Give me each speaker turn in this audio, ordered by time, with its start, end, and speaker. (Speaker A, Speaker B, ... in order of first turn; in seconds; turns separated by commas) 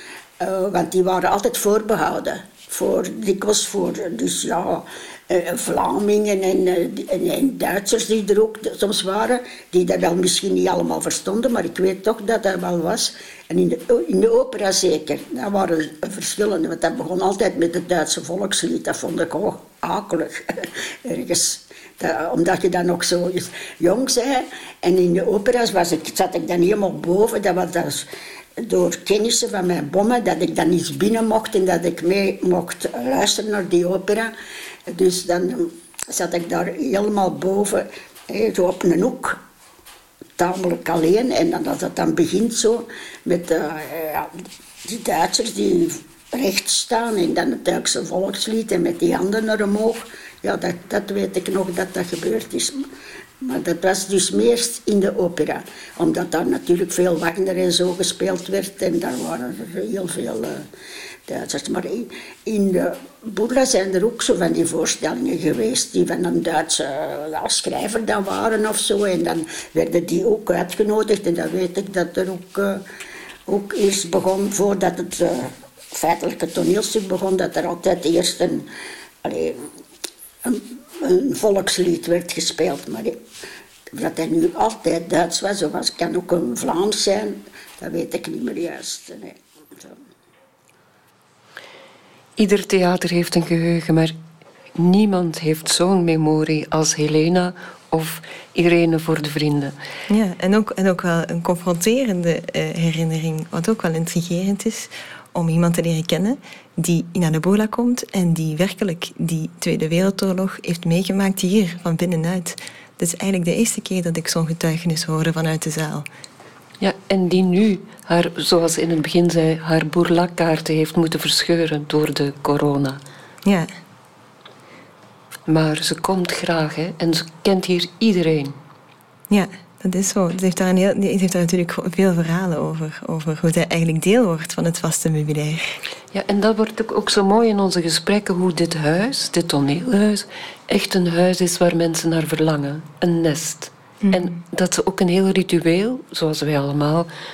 Speaker A: 0.4-28.1, Speaker A: 28.6-34.3, Speaker A: 34.9-39.4, Speaker A: 40.4-44.3, Speaker A: 44.8-52.9, Speaker A: 53.4-60.6, Speaker A: 61.3-72.8, Speaker A: 73.5-78.7, Speaker A: 79.2-79.6, Speaker A: 80.4-83.2, Speaker A: 84.0-90.0, Speaker B: 92.4-94.2, Speaker B: 94.8-99.8, Speaker C: 100.1-116.1, Speaker B: 116.8-123.0, Speaker C: 123.5-123.7, Speaker B: 125.5-128.6, Speaker C: 129.3-135.8, Speaker B: 136.1-147.1, Speaker C: 144.0-144.3